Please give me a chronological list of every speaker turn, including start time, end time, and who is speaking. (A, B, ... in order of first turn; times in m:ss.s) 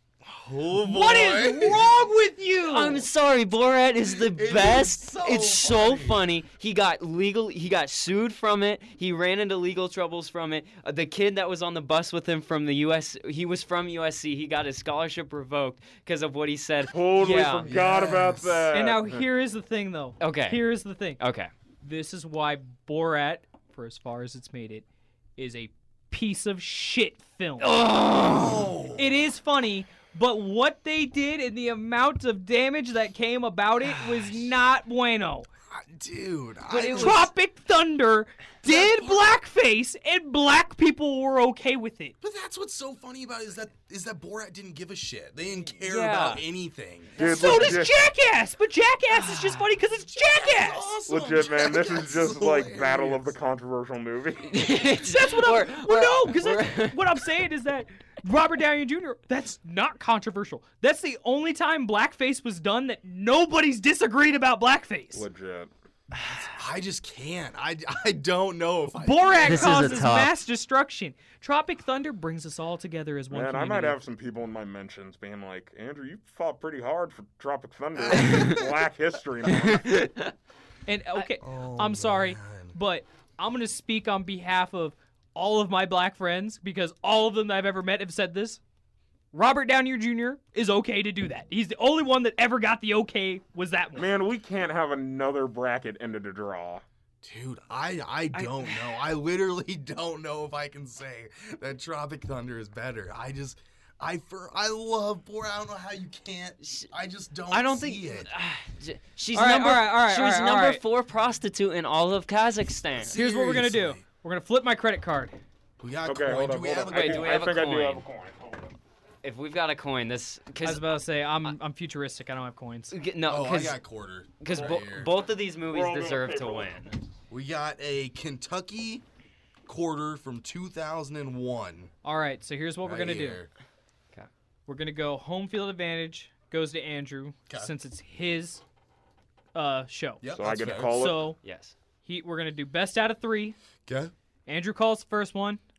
0:00.2-0:02.0 A
0:00.7-0:03.1 B
0:02.6-0:17.7 C
0:04.1-0:06.2 A
0:16.9-0:19.2 D
0:17.2-0:18.7 A
0:18.7-0:21.2 B
0:20.2-0:21.5 C
0:21.8-0:24.8 B
0:25.4-0:35.5 B
0:27.6-0:28.5 C
0:28.0-0:29.3 A
0:33.8-0:34.4 A
0:35.7-0:37.3 A
0:36.7-0:37.3 C
0:36.7-0:42.2 B
0:38.6-0:39.4 A
0:42.2-0:47.8 A
0:45.8-0:46.4 C
0:47.2-0:48.0 D
0:47.2-0:50.9 B
0:50.1-0:53.3 A
0:51.1-0:54.6 D
0:54.4-0:57.2 C
0:54.9-1:05.2 B
1:05.1-1:05.7 D
1:06.1-1:06.5 C
1:06.2-1:10.1 A
1:09.0-1:14.0 B
1:09.4-1:10.3 C
1:13.3-1:19.9 D
1:18.0-1:18.6 A
1:18.2-1:18.6 C
1:19.6-1:20.3 C
1:20.9-1:28.6 B
1:21.4-1:22.7 A
1:29.3-1:34.1 B
1:33.9-1:36.8 D
1:37.2-1:48.3 A
1:38.4-1:38.8 B
1:46.6-1:46.9 C
1:47.5-1:53.2 C
1:49.3-1:50.8 B
1:53.0-1:54.0 A
1:53.1-1:55.4 B
1:55.8-1:57.5 A
1:56.0-1:58.7 D
1:56.9-1:58.0 C
1:59.2-2:01.6 C
2:00.6-2:03.0 B
2:02.9-2:03.8 C
2:03.2-2:05.1 A
2:04.4-2:07.0 C
2:04.5-2:06.8 D
2:07.3-2:09.0 A
2:09.7-2:11.9 A
2:12.0-2:13.4 B
2:12.8-2:13.5 A
2:14.7-2:18.6 B
2:19.5-2:21.4 B
2:20.2-2:21.1 A
2:20.3-2:21.3 D
2:21.4-2:21.7 C
2:22.0-2:23.6 B
2:23.9-2:24.1 A
2:24.4-2:25.6 B